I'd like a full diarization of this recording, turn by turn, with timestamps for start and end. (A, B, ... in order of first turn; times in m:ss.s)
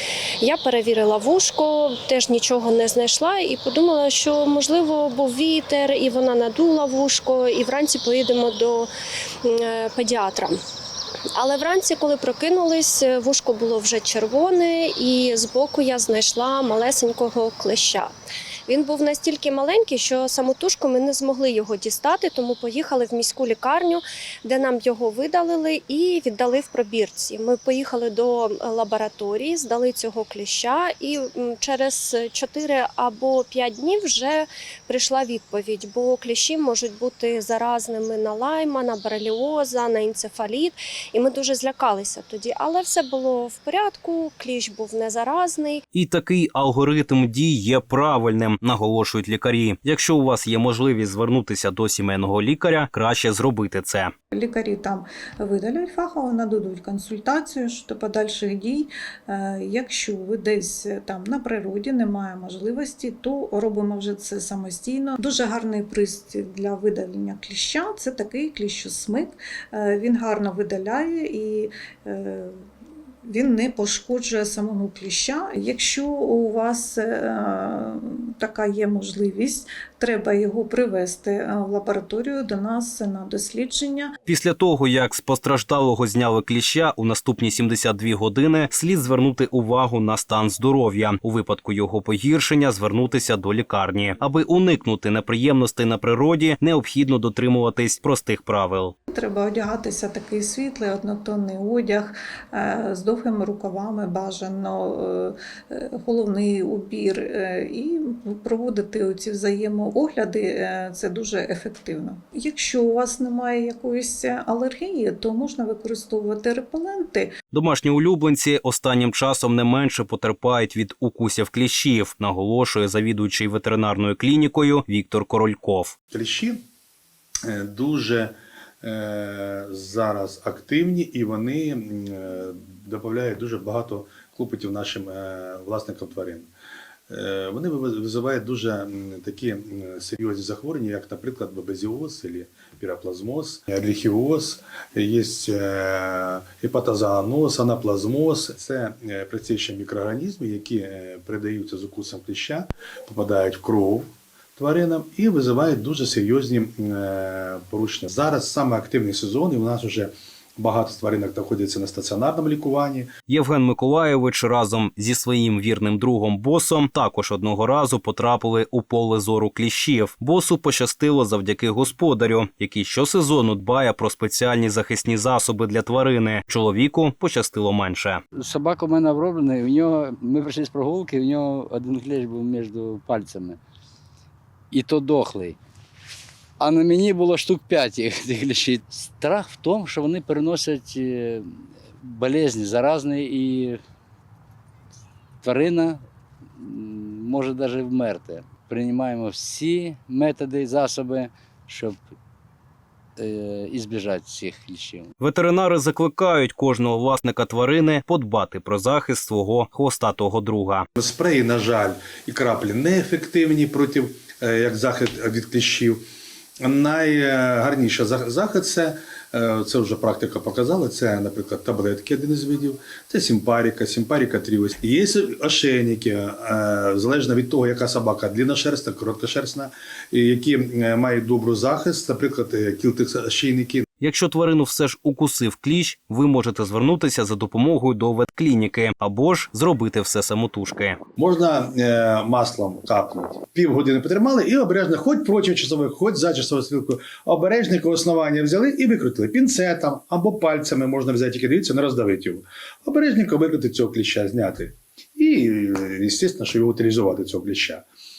0:00.4-0:08.9 A
0:09.4-0:10.6 A
0:11.3-0:18.1 A
0:18.7-0:45.8 A
0:45.9-0:54.1 B
0:54.3-1:12.6 C
1:13.2-1:24.1 C
1:24.3-1:38.9 B
1:39.1-1:57.3 C
1:57.5-2:05.9 B
2:06.1-2:06.6 D
2:07.4-2:16.5 D
2:17.1-2:43.1 D
2:43.3-2:58.2 B
2:58.3-3:03.6 E
3:04.7-3:05.6 E
3:06.6-3:13.8 E
3:15.4-3:16.0 E
3:16.6-3:22.0 E
3:23.2-3:25.1 E
3:25.2-3:30.8 B
3:31.0-3:36.0 D
3:36.6-3:53.8 D
3:54.0-4:01.0 B
4:01.2-4:17.8 D